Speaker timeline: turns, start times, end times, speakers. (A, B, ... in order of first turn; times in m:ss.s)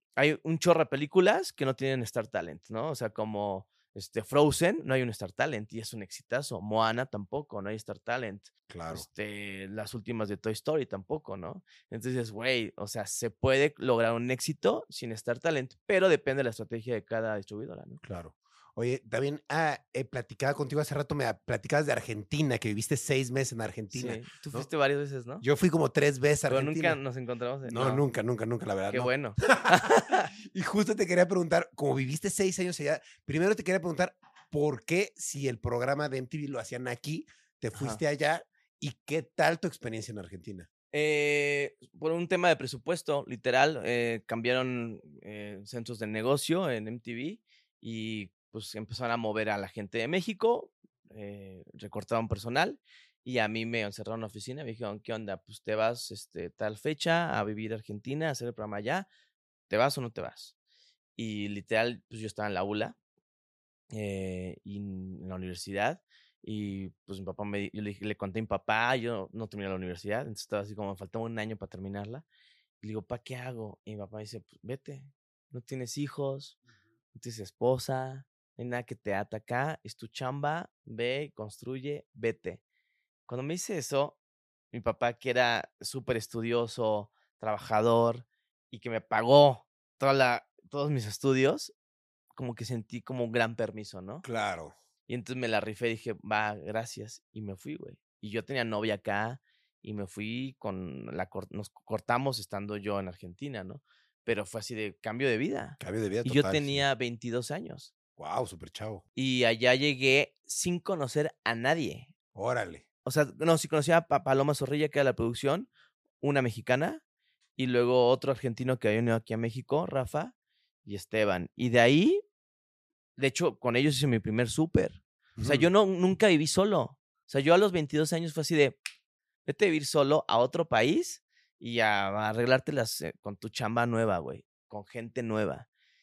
0:00.2-0:18.0 A
0:08.7-0:09.0 B
0:18.0-0:24.7 B
0:23.9-0:25.4 A
0:25.4-0:27.0 B
0:26.5-0:28.0 A
0:27.6-0:29.8 B
0:28.9-0:30.3 A
0:30.4-0:40.7 B
0:37.7-0:38.0 A
0:40.9-0:59.1 A
0:59.7-1:00.5 A
1:01.2-1:03.0 A
1:03.9-1:12.2 A
1:12.8-1:16.6 A
1:17.1-1:22.6 A
1:23.3-1:24.2 A
1:24.7-1:31.7 A
1:32.3-1:34.2 A
1:34.2-1:34.7 B
1:35.1-1:47.9 A
1:45.8-1:46.8 B
1:48.2-1:49.0 B
1:49.1-1:52.1 A
1:52.3-1:52.8 B
1:53.0-1:55.7 A
1:56.2-1:57.0 A
1:57.6-2:00.3 A
2:00.8-2:02.2 A
2:03.2-2:08.8 A
2:05.4-2:05.7 B
2:09.4-2:15.7 A